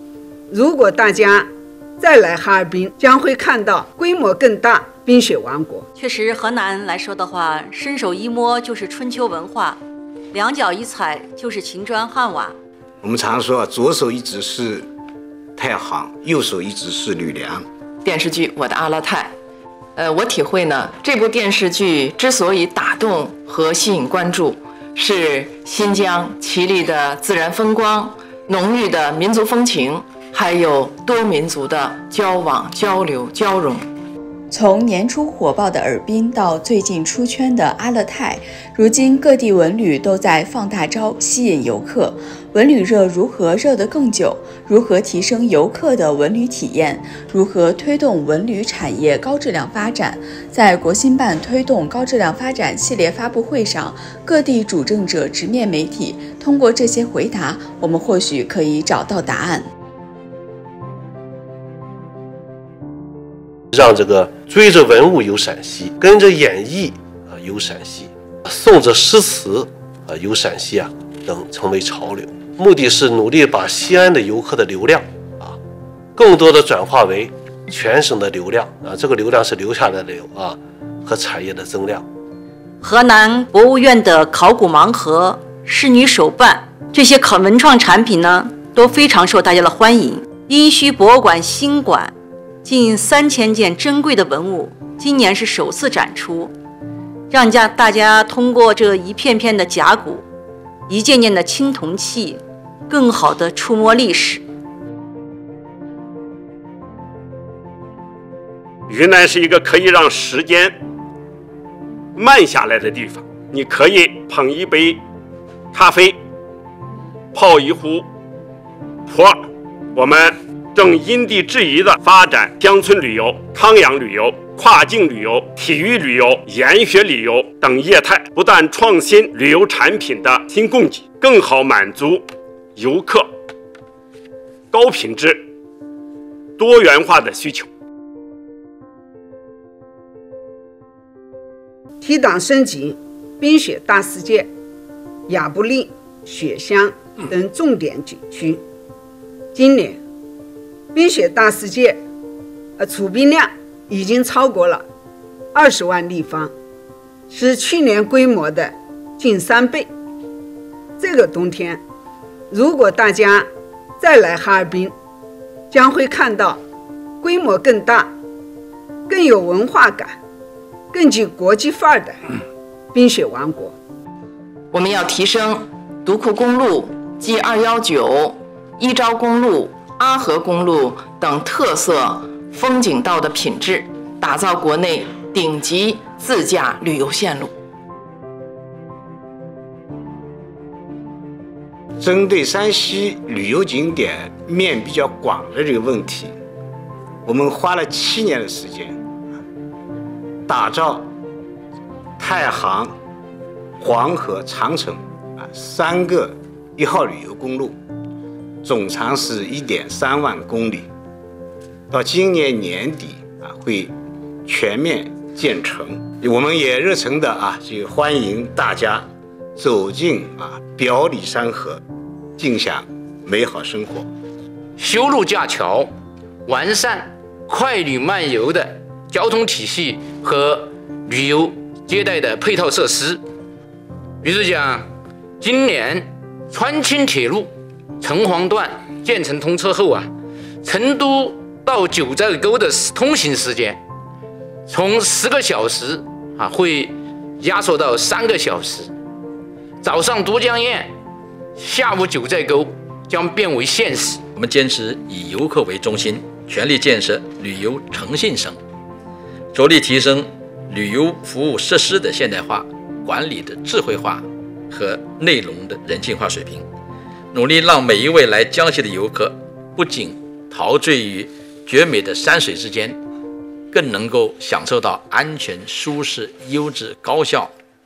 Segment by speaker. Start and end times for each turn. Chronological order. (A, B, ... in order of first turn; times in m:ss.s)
0:00.5-0:05.8 A
0:06.0-0:09.8 B
0:10.3-0:12.6 B
0:13.0-0:14.9 C
0:15.6-0:17.6 C
0:18.0-0:19.3 D
0:20.0-0:33.8 D
0:34.5-0:59.6 E
1:03.7-1:15.6 F
1:16.2-1:22.0 F
1:22.8-1:32.1 B
1:32.6-1:36.5 B
1:37.3-1:40.2 B
1:40.9-1:44.4 B
1:48.9-1:50.7 G
1:52.2-1:55.0 G
1:55.7-1:56.2 G
1:57.3-1:58.0 G
1:59.1-1:59.4 G
1:59.9-2:12.2 G
2:12.8-2:13.3 G
2:14.7-2:15.4 G
2:16.6-2:17.7 G
2:22.0-2:24.5 A
2:25.3-2:28.6 A
2:29.5-2:30.0 A
2:30.9-2:32.0 A
2:32.8-2:34.8 A
2:35.5-2:36.5 A
2:37.3-2:39.9 A
2:41.0-2:41.8 A
2:42.5-2:44.9 A
2:45.7-2:46.6 A
2:47.2-2:48.1 A
2:49.1-2:50.2 A
2:50.9-2:52.2 A
2:52.9-2:53.8 A
2:54.7-3:07.5 D
3:12.0-3:16.3 C
3:17.2-3:19.0 C
3:20.5-3:21.1 C
3:22.2-3:22.9 C
3:23.8-3:27.8 C
3:28.6-3:30.9 C
3:31.9-3:33.9 C
3:34.4-3:41.8 C
3:42.4-3:44.1 C
3:44.8-3:45.9 H
3:46.5-3:53.2 H
3:54.2-3:54.9 H
3:55.4-4:00.1 H
4:00.6-4:03.8 H
4:04.7-4:08.9 H
4:09.8-4:10.9 H
4:11.6-4:14.2 H
4:14.3-4:18.6 I
4:19.5-4:26.6 I
4:27.3-4:33.0 I
4:33.7-4:37.5 I